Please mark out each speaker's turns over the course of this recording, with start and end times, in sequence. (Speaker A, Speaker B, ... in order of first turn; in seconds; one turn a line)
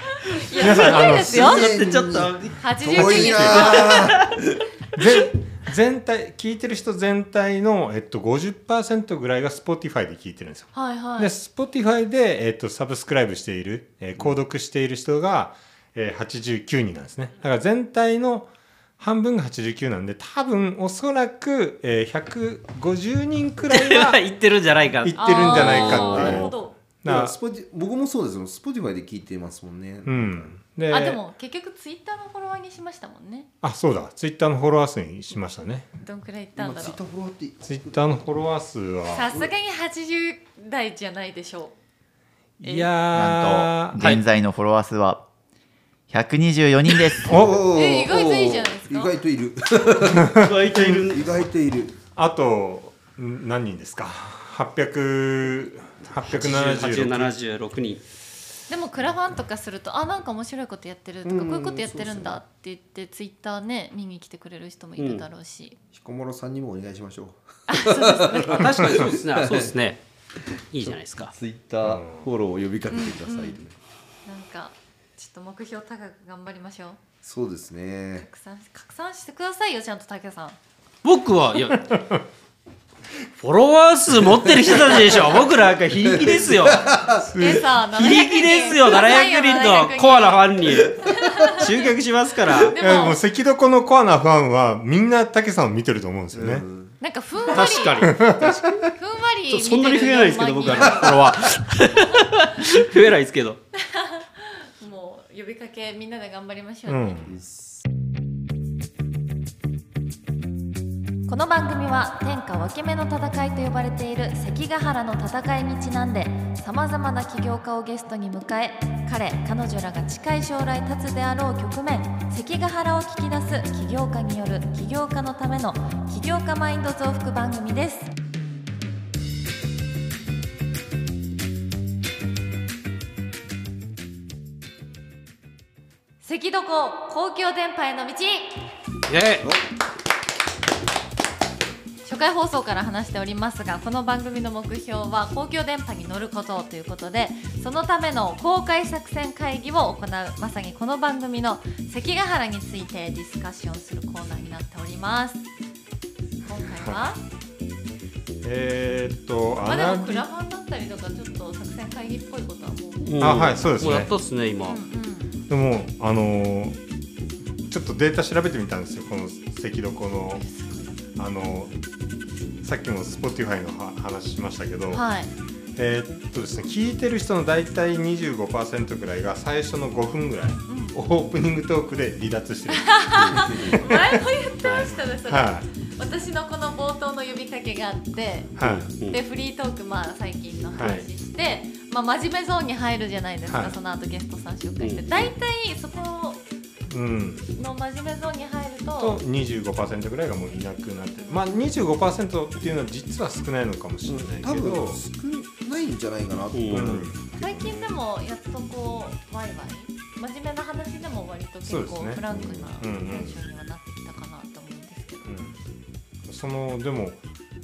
Speaker A: 0.3-1.7
Speaker B: 0.6-1.6
Speaker C: 0.6-2.6
Speaker D: 0.7-4.5
Speaker A: 2.6-4.1
Speaker B: 2.9-3.9
Speaker C: 3.5-4.4
Speaker B: 5.0-24.2
Speaker A: 10.7-11.3
Speaker C: 23.7-26.5
Speaker B: 25.0-27.4
Speaker A: 25.2-26.8
Speaker D: 26.1-26.5
Speaker D: 27.1-30.5
Speaker B: 30.1-31.2
Speaker A: 30.9-33.5
Speaker B: 33.6-35.9
Speaker A: 36.0-37.0
Speaker D: 36.6-38.0
Speaker B: 37.6-39.4
Speaker A: 39.1-41.7
Speaker B: 42.6-44.1
Speaker A: 42.6-42.9
Speaker E: 43.1-45.2
Speaker E: 46.1-47.5
Speaker D: 47.2-52.0
Speaker B: 47.3-47.6
Speaker A: 47.7-49.1
Speaker B: 50.1-51.2
Speaker C: 50.4-51.3
Speaker B: 52.1-57.3
Speaker C: 56.2-58.1
Speaker A: 58.7-65.8
Speaker D: 61.2-62.4
Speaker C: 65.0-65.2
Speaker D: 65.9-69.8
Speaker A: 67.7-68.7
Speaker C: 68.5-70.0
Speaker C: 70.7-71.3
Speaker D: 70.8-73.7
Speaker B: 71.9-72.2
Speaker A: 72.9-73.6
Speaker A: 74.3-77.0
Speaker D: 77.2-78.3
Speaker A: 78.2-80.6
Speaker C: 81.0-81.8
Speaker B: 81.7-82.2
Speaker C: 83.4-86.9
Speaker D: 84.9-85.4
Speaker D: 86.0-87.3
Speaker B: 87.3-87.7
Speaker A: 87.3-91.9
Speaker C: 87.9-91.0
Speaker C: 91.5-92.8
Speaker A: 92.7-93.2
Speaker B: 92.8-96.7
Speaker D: 96.3-97.0
Speaker A: 97.0-98.2
Speaker C: 97.5-98.8
Speaker B: 97.6-98.9
Speaker A: 98.8-101.3
Speaker C: 99.5-103.6
Speaker A: 103.8-107.3
Speaker B: 106.9-107.3
Speaker D: 107.3-107.8
Speaker A: 111.3-128.1
Speaker A: 136.2-138.5
Speaker C: 139.1-139.5
Speaker A: 142.0-155.5
Speaker A: 156.4-157.2
Speaker B: 156.8-157.1
Speaker B: 158.4-160.2
Speaker A: 159.7-163.1
Speaker C: 163.0-164.8
Speaker B: 163.2-164.1
Speaker A: 164.7-165.4
Speaker B: 165.5-166.8
Speaker B: 167.7-170.4
Speaker A: 170.3-171.0
Speaker B: 171.2-171.7
Speaker B: 172.6-175.1
Speaker A: 174.9-175.3
Speaker B: 175.8-184.3
Speaker A: 180.7-181.0
Speaker A: 182.7-188.5
Speaker C: 183.2-183.8
Speaker C: 184.6-184.9
Speaker B: 185.3-185.7
Speaker B: 188.6-188.9
Speaker C: 188.6-189.2
Speaker A: 189.1-196.4
Speaker B: 190.8-191.1
Speaker B: 193.5-193.8
Speaker C: 194.8-195.3
Speaker B: 196.9-197.5
Speaker A: 197.6-199.2
Speaker B: 199.0-205.0
Speaker A: 201.2-201.7
Speaker D: 204.1-207.6
Speaker C: 206.5-207.0
Speaker B: 206.7-207.8
Speaker A: 207.3-215.3
Speaker B: 211.6-213.4
Speaker D: 212.3-212.8
Speaker B: 215.2-215.6
Speaker B: 216.2-217.2